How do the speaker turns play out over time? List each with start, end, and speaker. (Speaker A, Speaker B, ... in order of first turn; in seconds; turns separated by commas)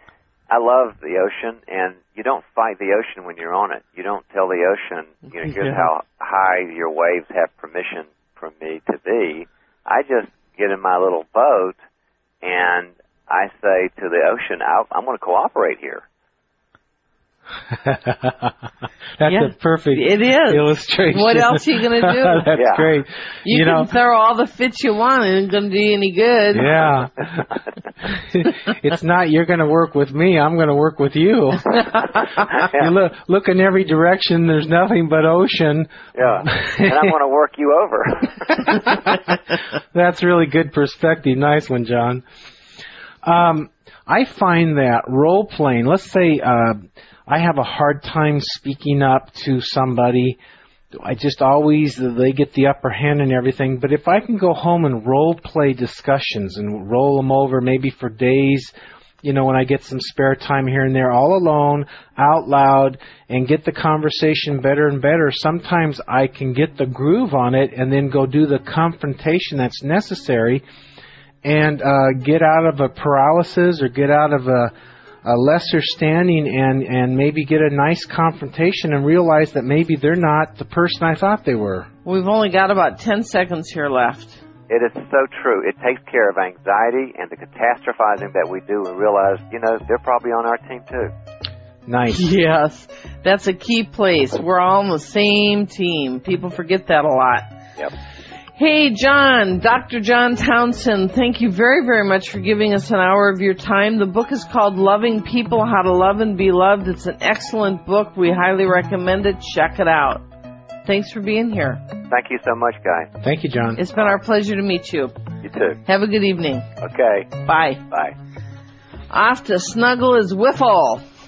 Speaker A: 0.5-11.8, Speaker A: 12.4-16.0, Speaker B: 17.7-18.5, Speaker B: 19.2-23.9, Speaker C: 19.3-22.5, Speaker A: 22.5-23.0, Speaker C: 23.4-26.8, Speaker B: 26.5-37.0, Speaker A: 32.5-32.9, Speaker A: 36.1-38.7, Speaker B: 38.7-39.4, Speaker B: 39.9-42.2, Speaker B: 43.2-50.4, Speaker B: 51.0-70.6, Speaker B: 71.4-74.7, Speaker B: 75.2-81.9, Speaker C: 82.0-84.4, Speaker A: 84.7-91.1, Speaker B: 91.9-92.3, Speaker C: 92.1-97.5, Speaker C: 98.6-110.2, Speaker C: 110.8-111.8, Speaker A: 112.1-113.1, Speaker B: 113.2-113.8, Speaker C: 113.8-115.1, Speaker A: 113.9-114.2, Speaker A: 115.4-115.8, Speaker C: 115.9-116.7, Speaker A: 116.8-117.3, Speaker C: 117.4-117.8, Speaker A: 117.9-118.2, Speaker C: 119.1-121.0